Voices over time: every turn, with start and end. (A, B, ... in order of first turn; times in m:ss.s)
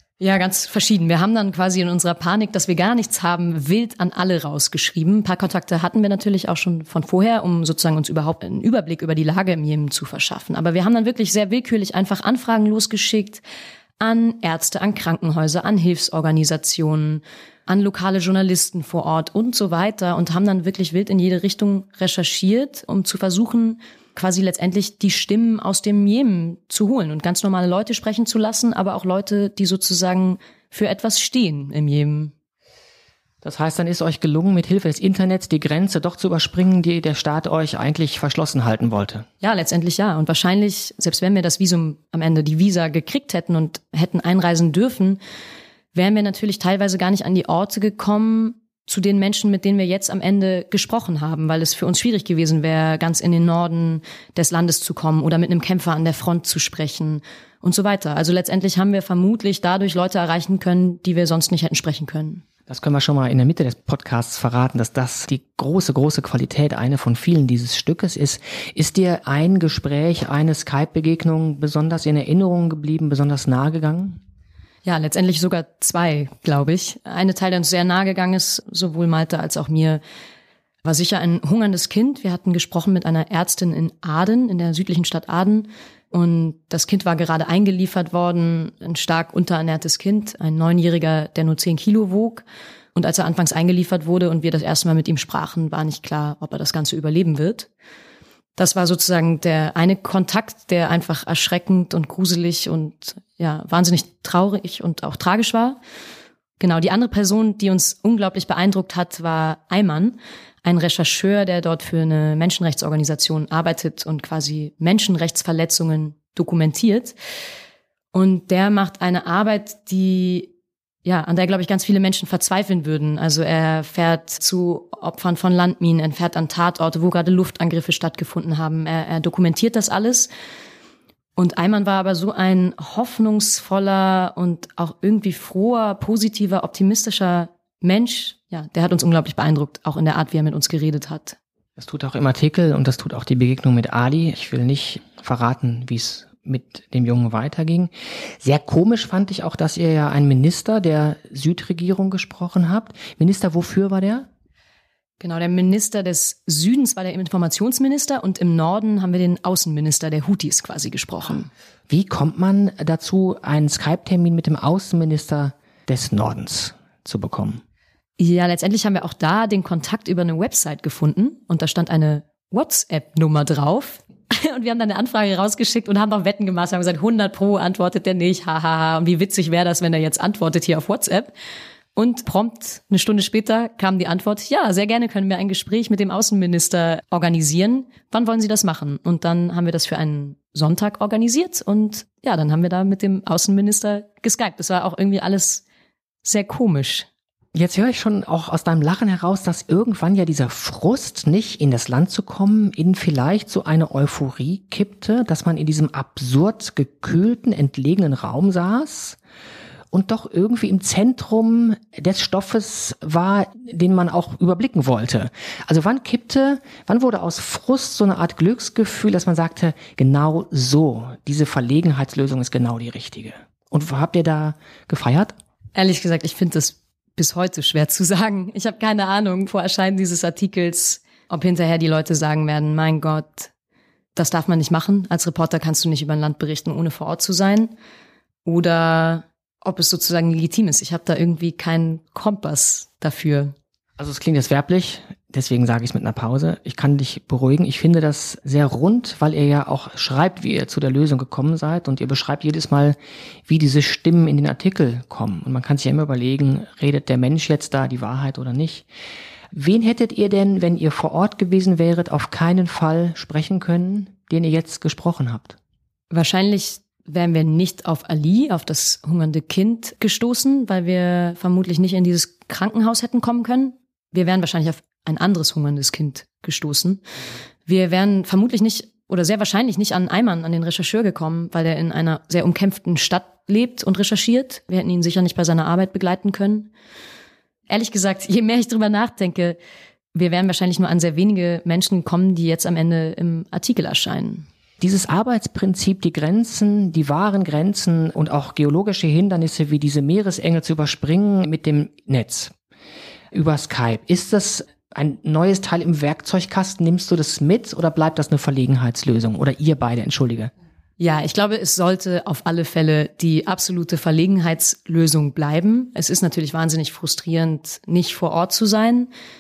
0:00.2-0:13.4 A
0:14.0-0:32.3 A
0:33.4-0:39.3 B
0:39.4-0:45.2 A
0:45.9-1:02.4 A
1:02.7-1:14.2 B
1:14.8-1:20.0 A
1:20.8-1:32.4 A
1:33.0-1:37.7 A
1:38.6-1:45.8 A
1:46.6-1:57.2 A
1:58.1-2:00.5 A
2:01.0-2:10.3 A
2:11.4-2:21.4 A
2:21.8-2:27.9 B
2:28.4-2:34.3 B
2:35.2-2:41.5 A
2:41.9-2:47.6 B
2:48.2-3:01.3 A
3:02.0-3:15.6 A
3:16.2-3:17.1 A
3:17.5-3:29.2 B
3:29.9-3:45.3 B
3:45.8-3:53.5 A
3:54.2-3:57.7 A
3:58.4-4:03.5 A
4:04.0-4:18.9 B
4:19.5-4:25.6 B
4:26.1-4:37.0 A
4:37.7-4:46.7 A
4:47.7-4:49.6 A
4:50.1-4:54.4 A
4:54.8-5:02.5 B
5:03.3-5:10.5 B
5:11.0-5:19.1 A